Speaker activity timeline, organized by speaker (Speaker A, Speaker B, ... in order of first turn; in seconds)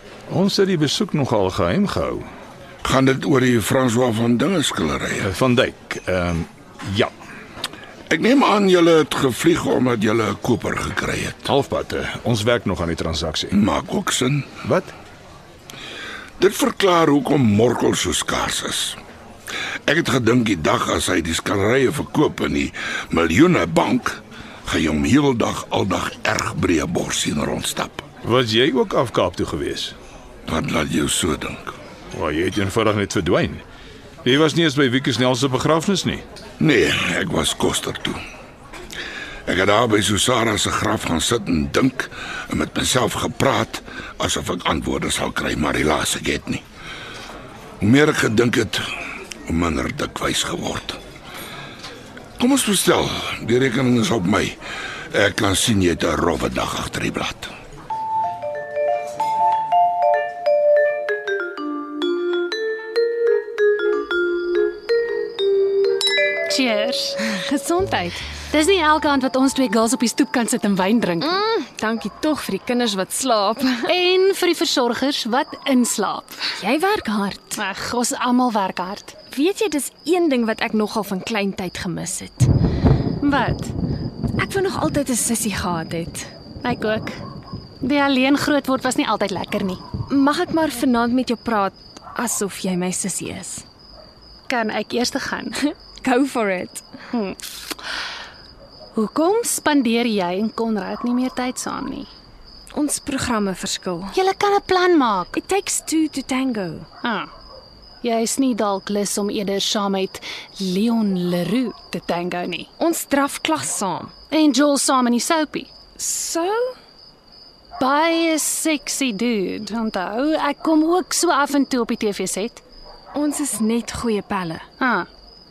Speaker A: 0.3-2.2, 5.3-7.1, 11.5-13.5, 14.6-14.9, 28.2-29.9, 32.1-33.6, 34.2-36.2
Speaker B: 2.8-5.3, 8.1-11.5, 13.5-14.5, 16.4-19.0, 19.9-28.0, 30.4-31.8, 36.6-38.2, 39.5-46.6, 47.8-48.8, 49.5-51.0, 52.4-54.6, 55.1-57.5
Speaker C: 66.5-67.2, 68.5-71.4, 73.9-76.4, 77.5-79.1, 83.2-83.7, 86.6-87.2, 87.8-89.8, 94.5-95.6, 97.1-97.4, 98.9-102.1, 104.1-105.3, 107.0-107.3, 108.0-112.7, 114.3-115.7, 117.8-122.6, 124.8-125.1
Speaker D: 67.2-68.2, 71.2-73.9, 76.5-77.6, 79.3-82.5, 84.4-86.3, 90.1-93.6, 95.6-96.8, 102.7-104.2, 105.3-106.9, 112.8-114.1, 116.0-116.7, 123.1-124.7